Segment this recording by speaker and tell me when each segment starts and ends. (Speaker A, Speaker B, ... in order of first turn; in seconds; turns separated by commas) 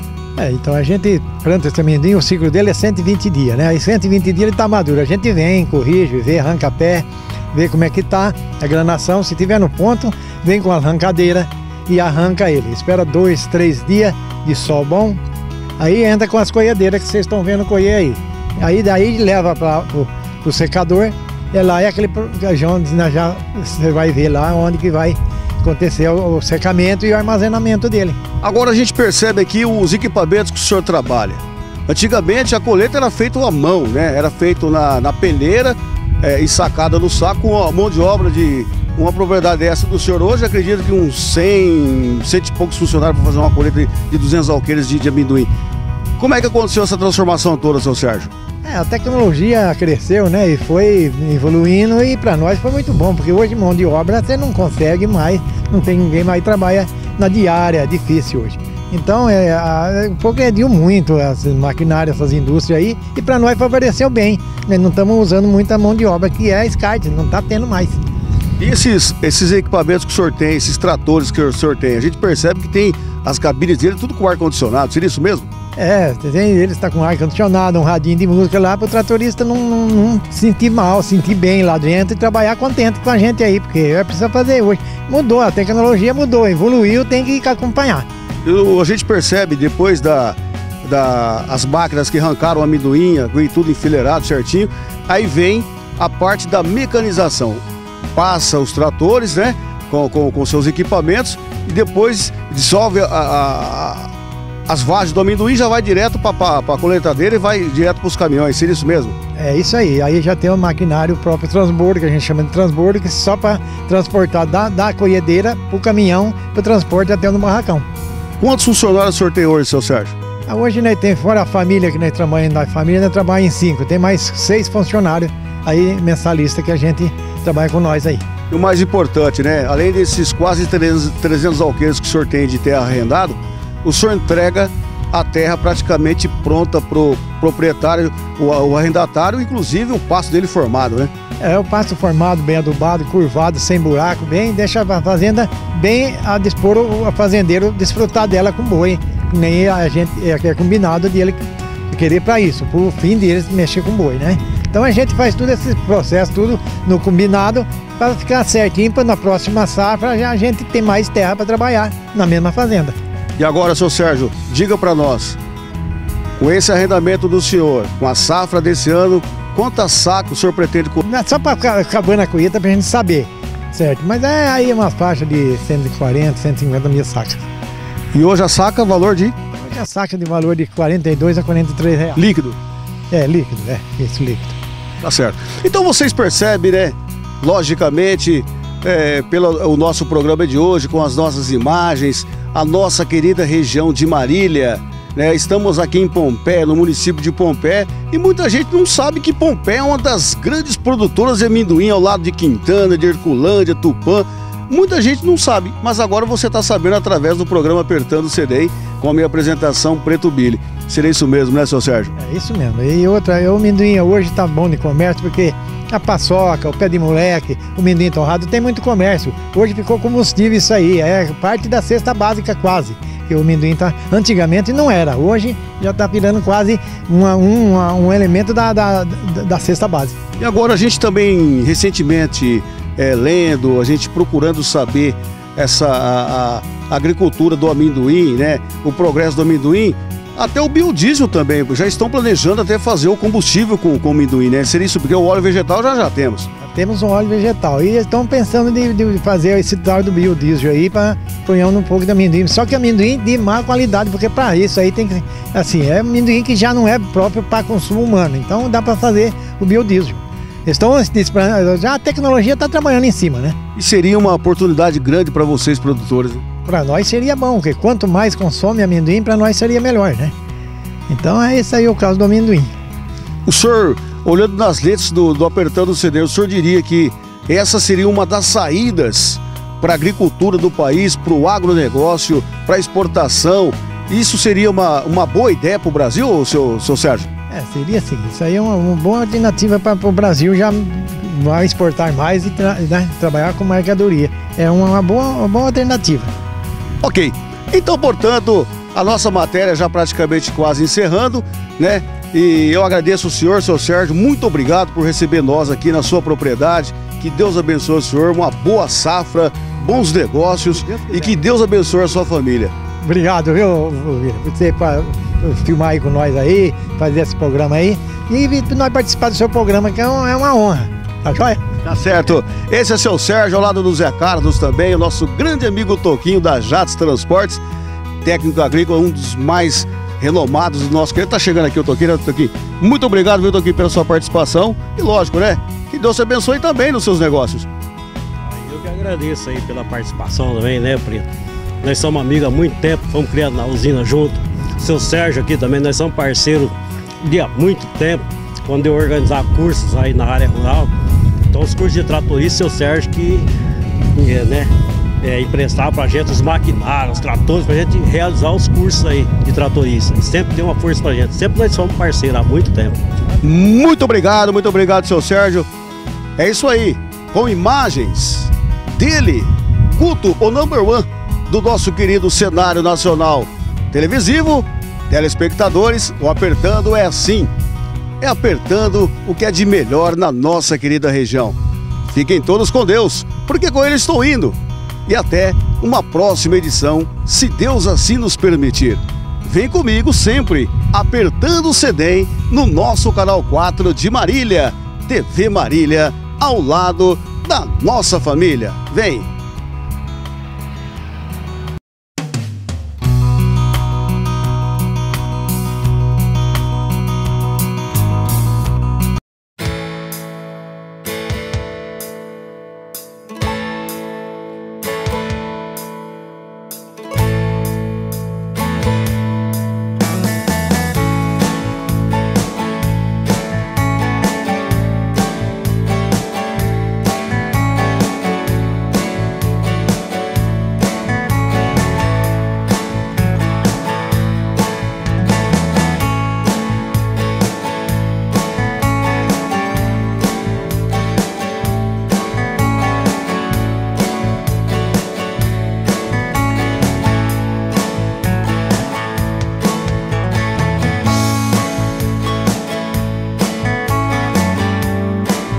Speaker A: 0.4-15.2, Speaker A: 15.8-28.2, Speaker B: 28.4-45.5, Speaker B: 46.2-48.3, Speaker A: 48.6-68.0, Speaker B: 68.6-75.5, Speaker A: 75.8-88.0, Speaker B: 88.4-104.1, Speaker B: 104.7-109.2, Speaker A: 109.4-117.8, Speaker B: 118.4-120.1, Speaker A: 120.5-128.3, Speaker B: 128.5-141.1, Speaker A: 141.4-162.9, Speaker B: 163.4-165.4, Speaker B: 166.4-171.0, Speaker A: 171.0-177.5, Speaker B: 178.1-179.3, Speaker A: 179.6-182.2, Speaker B: 182.1-182.6, Speaker A: 183.1-184.6, Speaker B: 185.0-212.1, Speaker A: 212.2-230.2, Speaker B: 230.4-246.5, Speaker A: 246.6-263.6, Speaker B: 263.8-266.4, Speaker A: 266.6-270.3, Speaker A: 271.1-272.7, Speaker B: 273.4-287.3, Speaker A: 287.5-296.3, Speaker B: 297.0-312.7, Speaker A: 313.0-321.6, Speaker B: 321.8-327.6, Speaker B: 328.2-337.7, Speaker C: 338.4-341.3, Speaker C: 341.8-350.9, Speaker C: 351.5-353.5, Speaker C: 354.1-363.0, Speaker B: 363.4-365.7, Speaker B: 366.4-377.5, Speaker B: 378.2-399.3